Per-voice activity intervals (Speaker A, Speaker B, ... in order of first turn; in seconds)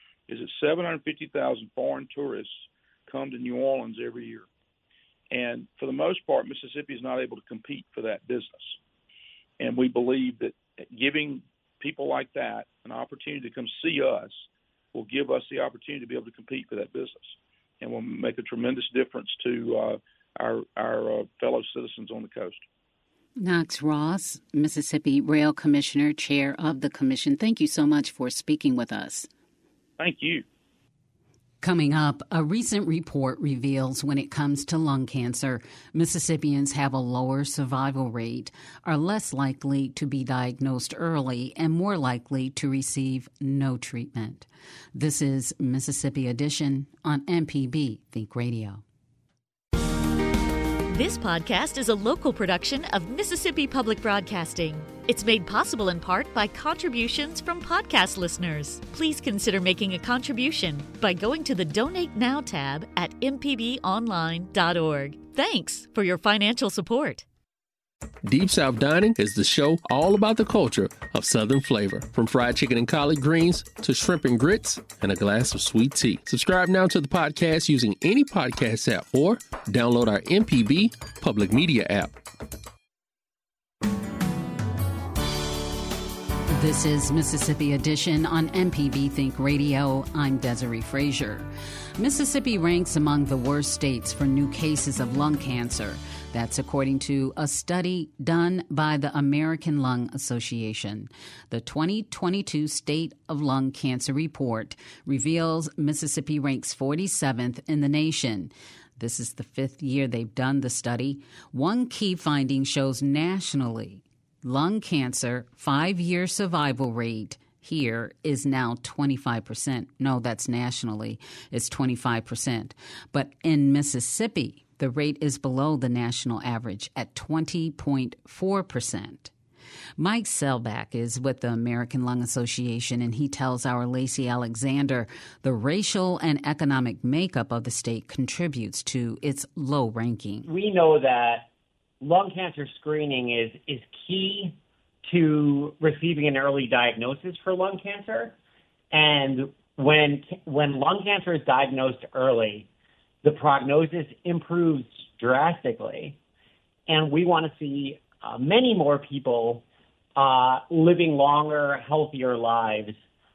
Speaker A: 0.3-4.5, 5.3-8.8, 9.6-22.6, 30.0-30.4
Speaker B: 23.4-29.3, 31.6-48.8, 86.5-91.5, 92.0-129.3, 130.0-140.5
Speaker C: 50.9-67.2
Speaker D: 68.2-82.1
Speaker E: 140.4-141.5, 142.0-148.3, 148.9-152.7, 153.2-156.2, 156.9-159.6, 160.2-162.9